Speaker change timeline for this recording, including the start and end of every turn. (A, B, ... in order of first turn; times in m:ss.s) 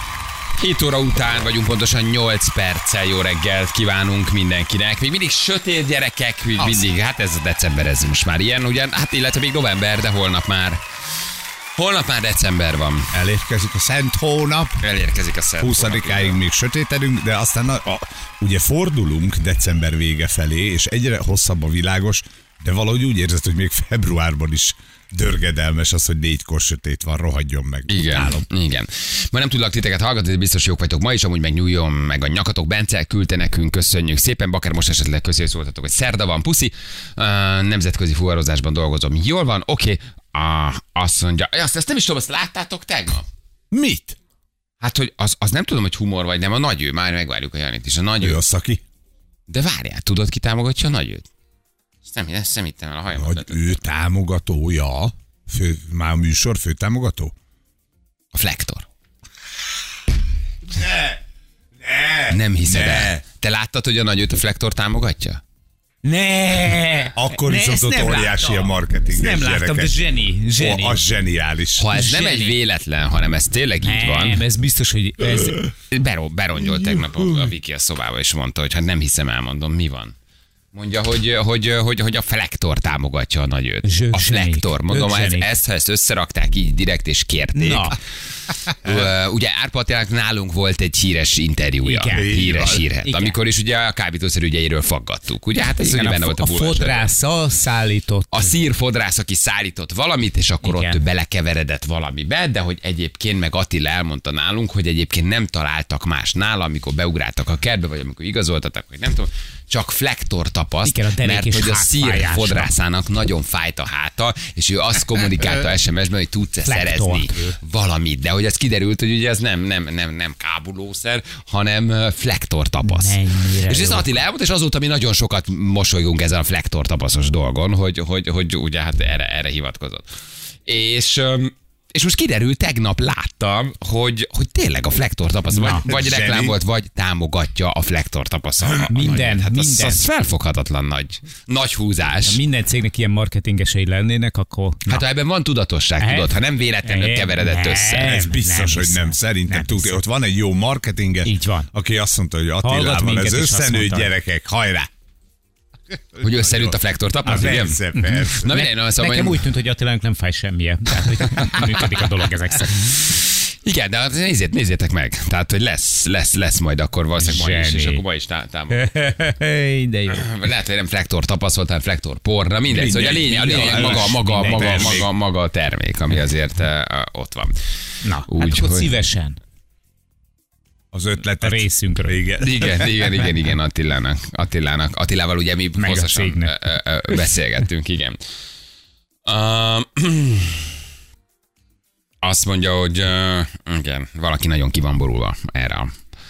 0:00.6-0:10.8 A
0:06.6-0:06.9 B
0:11.8-0:13.1 A
0:13.1-0:14.8 B
0:14.8-0:16.4 A
0:15.6-0:28.4 B
0:27.9-0:43.3 A
0:43.7-0:44.2 B
0:44.8-0:48.4 A
0:48.2-0:48.8 B
0:49.5-0:51.2 A
0:52.0-0:53.8 A
0:53.2-0:57.3 B
0:58.3-0:58.8 A
1:00.7-1:01.2 B
1:01.8-1:03.2 B
1:02.3-1:05.4 A
1:06.0-1:11.0 C
1:07.1-1:11.9 B
1:11.8-1:14.4 A
1:11.9-1:12.6 C
1:13.8-1:15.7 C
1:15.9-1:20.1 A
1:20.7-1:28.0 A
1:23.8-1:25.5 C
1:27.6-1:28.0 C
1:28.7-1:37.1 A
1:31.8-1:33.4 C
1:32.1-1:32.8 B
1:35.8-1:38.5 C
1:38.3-2:10.1 A
1:40.6-1:41.0 C
1:50.8-1:52.7 C
1:56.6-1:57.5 C
2:02.8-2:04.2 C
2:10.7-2:22.4 A
2:15.5-2:15.9 C
2:15.9-2:16.6 B
2:18.9-2:20.0 C
2:22.3-2:25.0 C
2:24.9-2:28.2 A
2:26.0-2:30.0 C
2:28.0-2:34.9 B
2:31.2-2:31.7 C
2:32.6-2:34.1 C
2:36.2-2:38.5 B
2:36.2-2:39.4 A
2:38.0-2:43.0 C
2:41.3-2:41.8 A
2:42.7-2:48.9 A
2:47.2-2:48.0 C
2:48.7-2:50.3 C
2:50.1-2:57.6 A
2:52.7-2:55.1 B
2:52.8-2:55.0 C
2:58.0-2:59.4 C
2:58.3-2:58.9 A
3:00.9-3:03.0 B
3:01.4-3:02.2 C
3:02.4-3:08.2 A
3:05.8-3:06.5 C
3:09.3-3:10.7 A
3:12.2-3:15.9 A